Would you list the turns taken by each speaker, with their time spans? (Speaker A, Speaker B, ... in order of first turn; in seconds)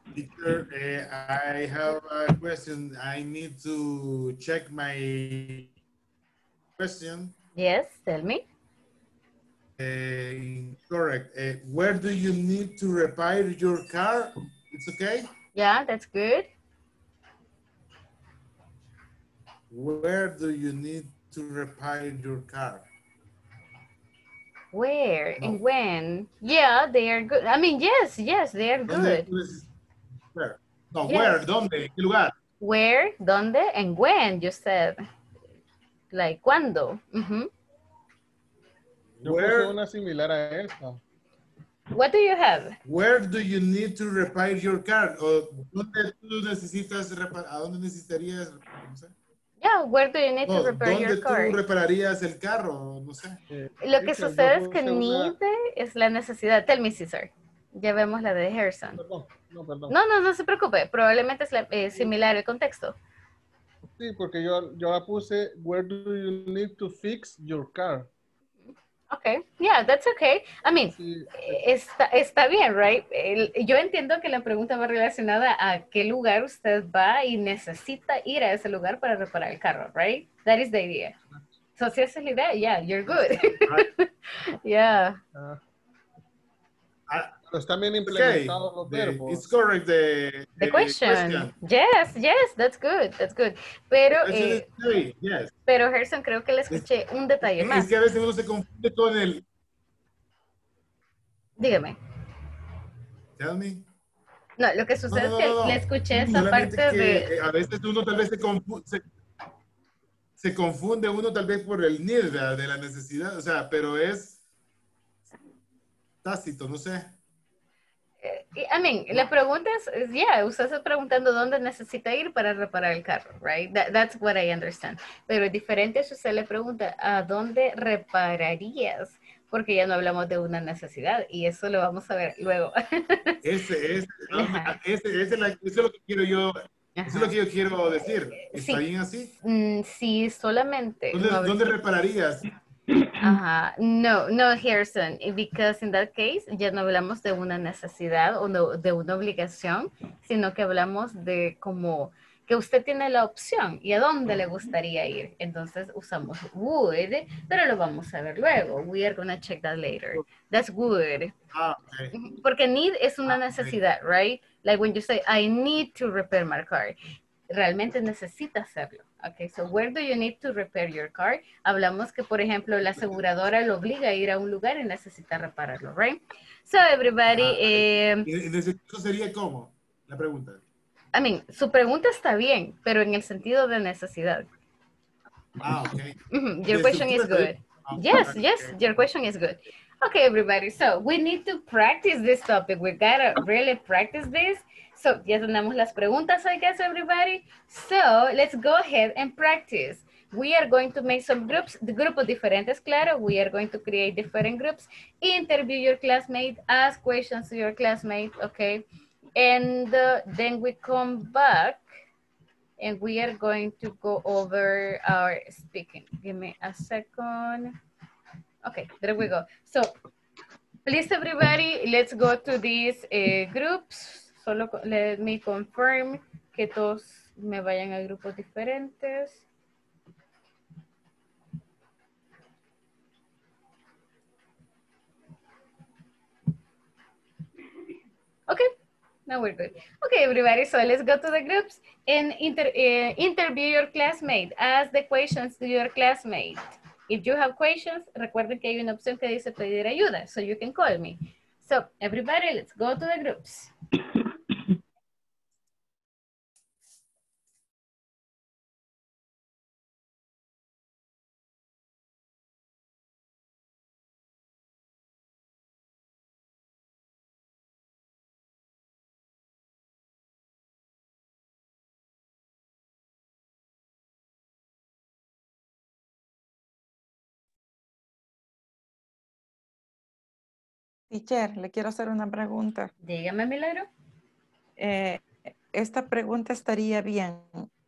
Speaker A: 0.1-5.7, 6.8-7.3, 9.8-15.3, 19.7-22.9, 28.9-29.7, 30.4-32.3, 39.2-39.8, 42.9-49.1, 50.5-53.4, 88.0-91.5, 94.2-95.5, 97.4-99.4, 103.4-103.9, 105.1-109.0, 110.4-114.4, 116.2-117.1, 133.4-139.3, 141.1-142.5, 161.5-162.1, 163.3-163.8, 177.3-180.6, 185.6-186.2, 186.7-188.8
Speaker B: 7.6-8.4, 15.6-16.5, 24.7-29.3, 31.1-31.4, 32.6-35.0, 36.1-37.5, 41.9-42.8, 49.6-51.6, 53.8-59.0, 59.9-62.9, 69.1-81.1, 81.8-85.2, 90.6-94.7, 95.7-97.9, 101.6-102.0, 104.6-107.3, 118.2-133.4, 134.3-134.8, 137.0-137.4, 138.0-138.8, 139.4-141.7, 143.2-161.3, 162.1-167.0, 167.5-178.3, 181.1-184.5, 186.3-208.8, 209.4-211.8, 212.8-217.8, 218.6-219.9, 220.9-229.4, 239.3-253.7, 283.0-283.9
Speaker C: 39.2-41.0, 53.5-55.4, 59.0-59.9, 64.0-68.1, 71.0-71.6, 85.3-85.6, 87.5-89.5
Speaker D: 281.1-282.9, 284.8-287.7